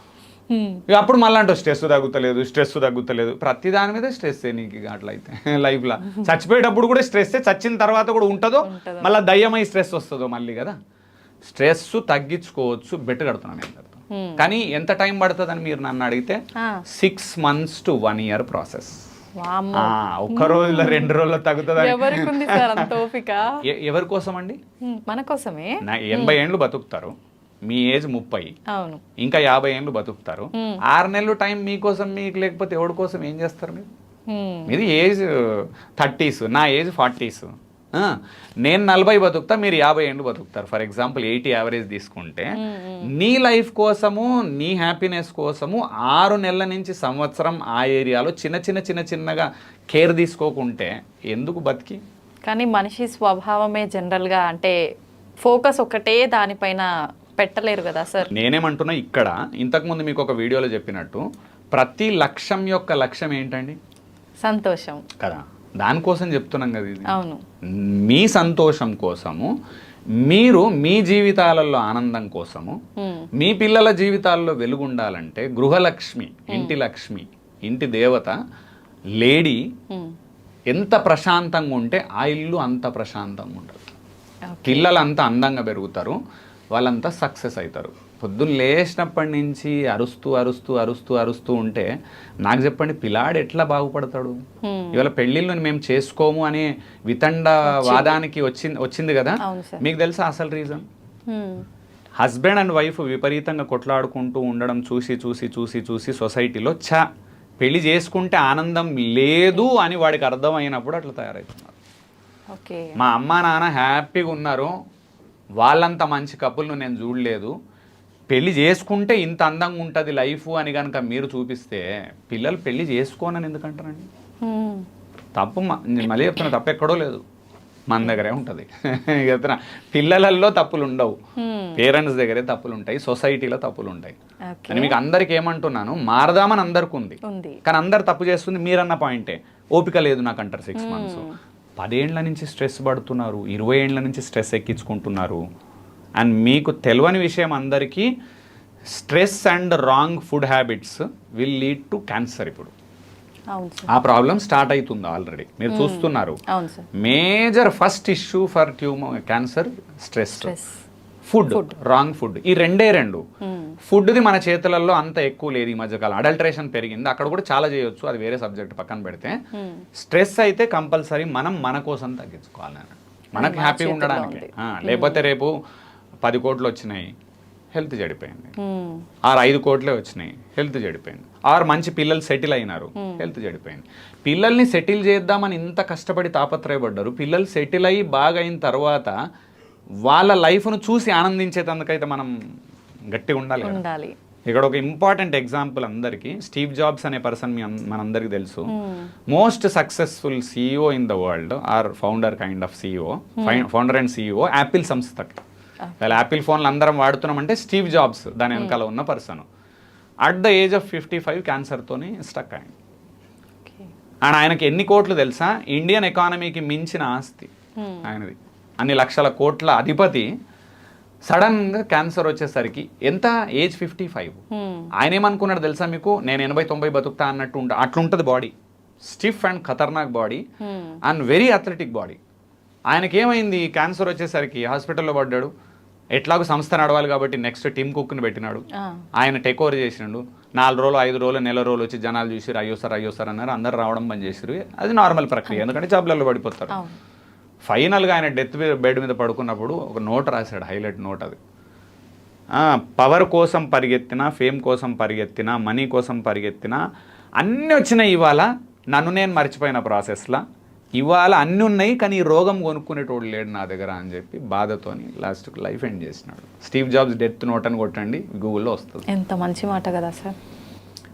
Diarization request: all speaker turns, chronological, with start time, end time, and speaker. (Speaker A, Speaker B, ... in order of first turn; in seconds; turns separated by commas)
Speaker A: 0.5-0.8, Speaker B: 0.9-10.8, Speaker A: 8.6-9.1, Speaker B: 11.4-16.4, Speaker A: 14.1-14.4, Speaker B: 16.9-19.0, Speaker A: 19.4-21.1, Speaker B: 19.8-22.9, Speaker A: 21.8-23.6, Speaker B: 23.6-24.6, Speaker A: 24.8-26.4, Speaker B: 25.8-27.1, Speaker B: 27.7-28.5, Speaker A: 28.7-29.0, Speaker B: 29.2-33.9, Speaker A: 30.5-30.8, Speaker A: 34.3-34.8, Speaker B: 34.7-42.6, Speaker A: 42.6-43.1, Speaker B: 43.1-52.0, Speaker A: 52.5-54.7, Speaker A: 55.4-56.9, Speaker A: 57.4-58.3, Speaker B: 58.3-61.2, Speaker B: 61.7-63.8, Speaker A: 64.4-65.0, Speaker B: 65.2-67.1, Speaker A: 67.1-67.4, Speaker B: 67.7-69.5, Speaker B: 70.2-72.8, Speaker A: 73.0-73.3, Speaker B: 73.4-78.3, Speaker A: 76.5-76.8, Speaker B: 79.2-79.6, Speaker B: 80.7-83.8, Speaker A: 84.5-84.9, Speaker B: 84.7-86.2, Speaker B: 86.7-91.9, Speaker B: 92.4-94.3, Speaker A: 94.6-95.0, Speaker B: 94.9-100.8, Speaker A: 97.7-98.2, Speaker A: 99.4-99.8, Speaker A: 101.3-101.7, Speaker B: 102.2-107.0, Speaker B: 107.6-111.7, Speaker A: 112.5-113.0, Speaker B: 113.0-114.7, Speaker B: 115.6-117.5, Speaker B: 118.3-124.1, Speaker A: 124.4-124.8, Speaker B: 125.3-127.2, Speaker B: 127.9-131.2, Speaker A: 131.4-131.8, Speaker B: 131.8-134.2, Speaker A: 134.5-135.0, Speaker B: 134.7-141.3, Speaker A: 137.2-137.6, Speaker A: 140.8-141.4, Speaker B: 141.8-145.4, Speaker B: 146.2-148.1, Speaker B: 148.9-152.7, Speaker A: 153.5-153.9, Speaker B: 153.9-156.4, Speaker A: 155.7-156.9, Speaker B: 156.9-160.5, Speaker A: 160.4-160.8, Speaker B: 161.2-163.2, Speaker A: 163.4-163.8, Speaker B: 163.9-169.4, Speaker A: 169.5-169.8, Speaker B: 170.0-175.5, Speaker A: 173.3-175.3, Speaker B: 176.2-177.1, Speaker B: 177.7-178.5, Speaker A: 178.6-179.0, Speaker B: 179.2-189.1, Speaker A: 183.0-183.2, Speaker B: 190.0-192.3, Speaker B: 193.1-193.8, Speaker A: 193.6-194.2, Speaker B: 194.5-198.7, Speaker A: 198.7-199.1, Speaker B: 199.3-205.4, Speaker A: 203.4-203.7, Speaker A: 205.8-206.2, Speaker B: 206.0-209.4, Speaker B: 210.2-212.7, Speaker A: 213.6-213.9, Speaker B: 214.2-217.5, Speaker A: 217.8-218.1, Speaker B: 218.0-220.3, Speaker B: 221.3-224.4, Speaker A: 224.5-224.9, Speaker B: 225.0-228.5, Speaker B: 229.1-230.4, Speaker A: 230.6-231.0, Speaker B: 231.0-232.2, Speaker B: 232.9-235.5, Speaker B: 236.1-238.6, Speaker A: 238.8-239.0, Speaker B: 239.2-246.8, Speaker A: 246.7-247.0, Speaker B: 247.6-251.4, Speaker B: 252.5-256.8, Speaker B: 257.4-260.4, Speaker B: 261.0-269.0, Speaker A: 269.1-270.3